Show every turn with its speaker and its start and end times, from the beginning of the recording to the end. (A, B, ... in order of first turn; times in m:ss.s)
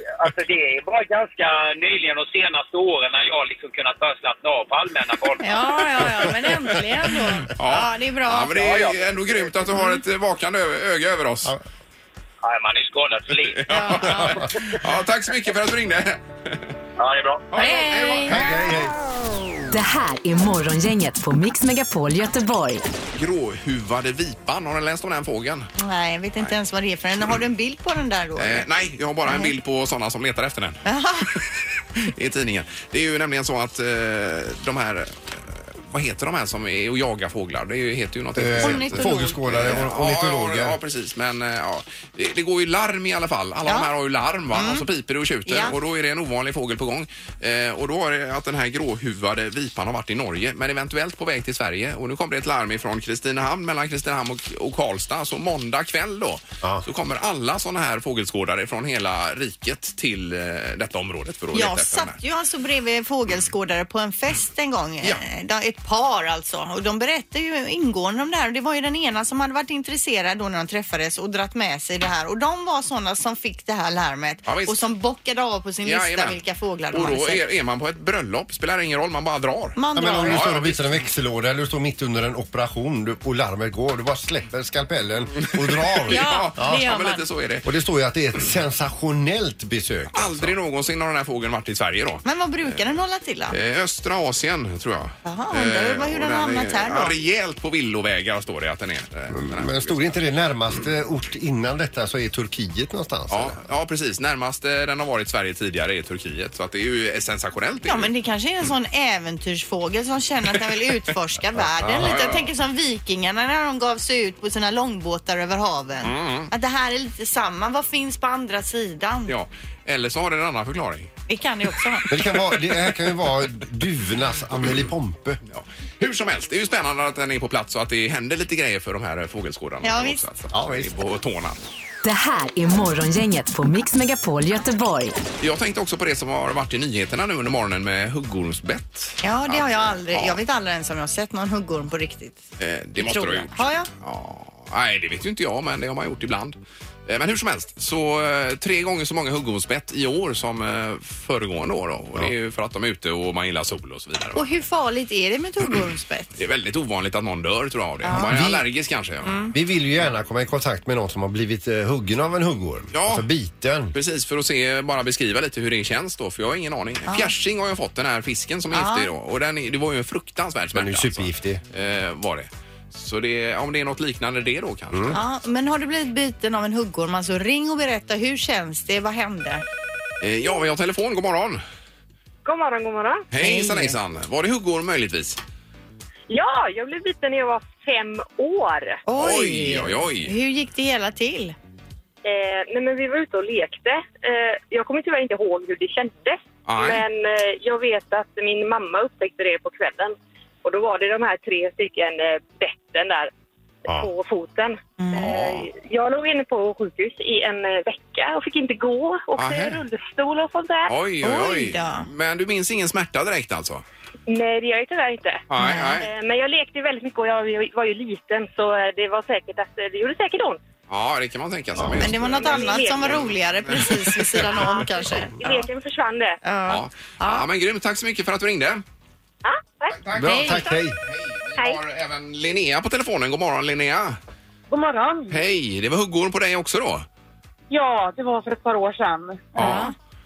0:00.2-0:05.5 A
0:05.4-0:08.8 B
0:07.5-0:11.5 C
0:08.6-0:09.4 A
0:12.4-0:13.8 A
0:13.5-0:16.6 C
0:13.7-0:14.4 B
0:14.0-0:14.5 D
0:17.0-0:17.6 A
0:17.5-0:18.6 C
0:17.6-0:18.2 B
0:18.3-0:19.0 D
0:19.7-0:22.8 E
0:23.1-0:25.7 C
0:25.8-0:28.7 B
0:28.4-0:30.8 C
0:29.2-0:29.5 B
0:30.8-0:31.3 B
0:32.0-1:02.2 C
0:38.4-0:40.8 D
0:38.6-0:39.4 B
0:44.5-0:44.8 B
0:45.4-0:45.8 B
1:01.5-1:17.4 B
1:14.4-1:14.8 C
1:15.8-1:16.4 C
1:16.9-1:21.0 C
1:19.8-1:20.5 B
1:19.9-1:26.9 D
1:25.4-1:27.6 C
1:26.1-1:27.2 B
1:27.6-1:30.6 D
1:30.1-1:32.8 C
1:32.2-1:33.6 B
1:33.5-1:40.2 C
1:35.2-1:37.1 B
1:39.3-1:43.6 D
1:43.3-1:48.1 C
1:47.8-1:59.3 B
1:51.8-1:52.5 C
1:56.0-1:56.5 C
1:59.3-2:01.1 C
2:01.3-2:02.1 B
2:02.1-2:05.4 D
2:05.5-2:11.6 C
2:09.8-2:10.2 B
2:10.5-2:10.9 D
2:12.0-2:15.2 E
2:15.4-2:20.4 C
2:19.2-2:22.4 B
2:22.6-2:34.5 C
2:23.0-2:23.9 B
2:34.4-2:36.4 B
2:36.4-2:39.5 C
2:38.0-2:38.3 B
2:38.1-2:38.6 D
2:39.3-2:39.5 B
2:39.5-2:43.9 D
2:42.9-2:43.3 C
2:43.9-2:55.2 C
2:48.7-2:49.1 B
2:50.7-2:51.6 D
2:54.9-2:55.2 D
2:55.1-2:59.6 B
3:00.2-3:01.6 C
3:02.4-3:03.2 F
3:03.3-3:05.4 C
3:03.4-3:03.9 B
3:06.3-3:09.0 F
3:09.1-3:11.6 B
3:09.2-3:10.3 C
3:12.2-3:23.3 F
3:16.7-3:17.0 C
3:23.9-3:30.9 F
3:25.0-3:25.3 B
3:25.2-3:25.7 C
3:29.4-3:29.8 C
3:30.9-3:33.8 C
3:31.2-3:32.1 B
3:34.3-3:35.4 F
3:35.5-3:36.1 C
3:35.6-3:36.0 B
3:36.0-3:40.6 F
3:40.9-3:45.3 C
3:41.9-3:45.4 B
3:42.4-3:43.3 F
3:45.4-3:46.4 F
3:46.4-3:47.4 B
3:46.7-3:48.8 C
3:49.4-3:49.9 F
3:49.9-3:54.2 C
3:50.1-3:51.0 D
3:50.3-3:50.8 B
3:54.7-3:55.4 G
3:55.3-3:57.1 C
3:57.7-3:59.8 G
3:59.6-3:59.9 C
3:59.6-3:59.9 B